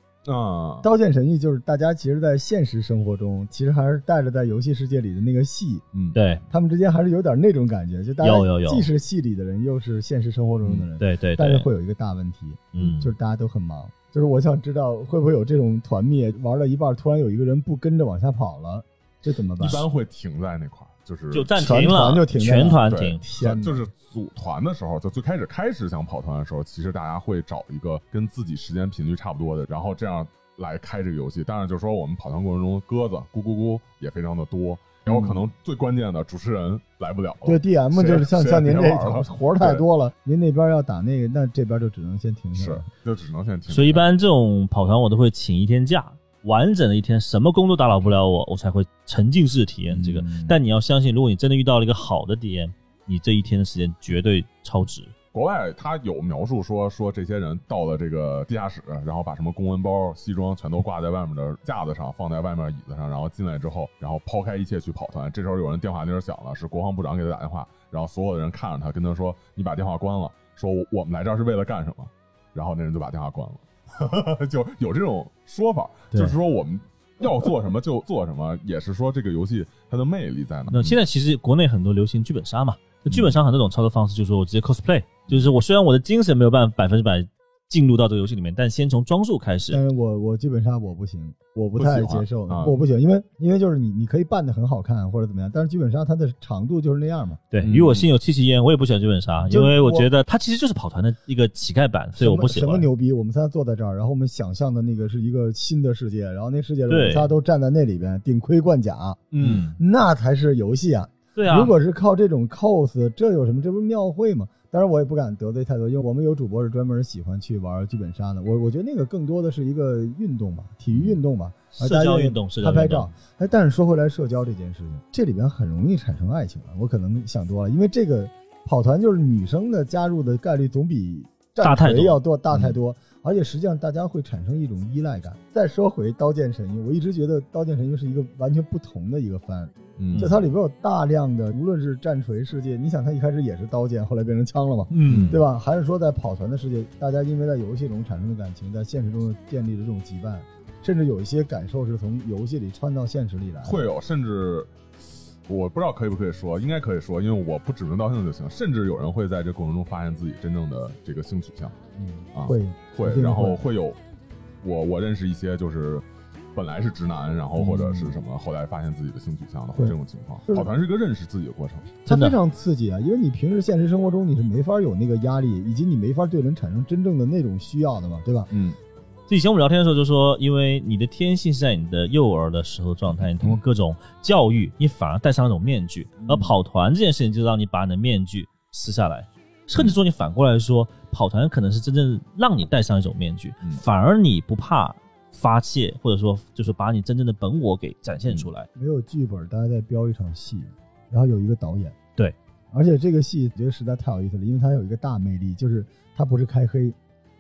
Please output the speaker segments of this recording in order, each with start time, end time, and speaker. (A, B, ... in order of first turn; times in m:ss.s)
0:00.2-0:00.9 A
0:00.8-0:05.8 B
0:06.1-0:06.4 C
0:06.5-0:19.8 B
0:08.2-0:08.9 C
0:11.0-0:11.7 C
0:12.7-0:13.1 C
0:19.6-0:21.5 A
0:21.3-0:23.2 C
0:21.6-0:23.8 B
0:22.9-0:39.8 A
0:35.1-0:35.4 B
0:37.4-0:42.9 B
0:42.6-0:44.0 A
0:43.7-0:55.1 C
0:49.9-0:50.6 B
0:55.3-1:21.0 A
1:20.7-1:29.8 C
1:29.7-1:37.4 B
1:31.8-1:32.8 A
1:37.5-1:42.9 C
1:37.6-1:38.1 A
1:39.5-1:40.1 B
1:42.2-2:33.9 B
1:46.9-1:47.3 C
1:49.3-1:49.7 A
1:49.4-1:49.8 C
1:51.4-1:51.7 C
2:00.9-2:01.2 A
2:01.7-2:03.1 C
2:11.6-2:12.2 C
2:20.0-2:20.4 A
2:24.9-2:25.4 C
2:25.1-2:25.4 A
2:33.6-2:41.8 A
2:42.0-2:43.6 B
2:42.4-2:44.0 A
2:44.6-2:46.0 A
2:46.6-2:52.0 A
2:47.6-2:48.2 B
2:52.0-2:58.5 B
2:52.1-2:52.4 C
2:58.5-2:58.8 A
2:59.3-3:18.7 C
3:03.2-3:03.6 A
3:06.2-3:06.6 B
3:18.8-3:22.0 B
3:22.7-3:27.0 B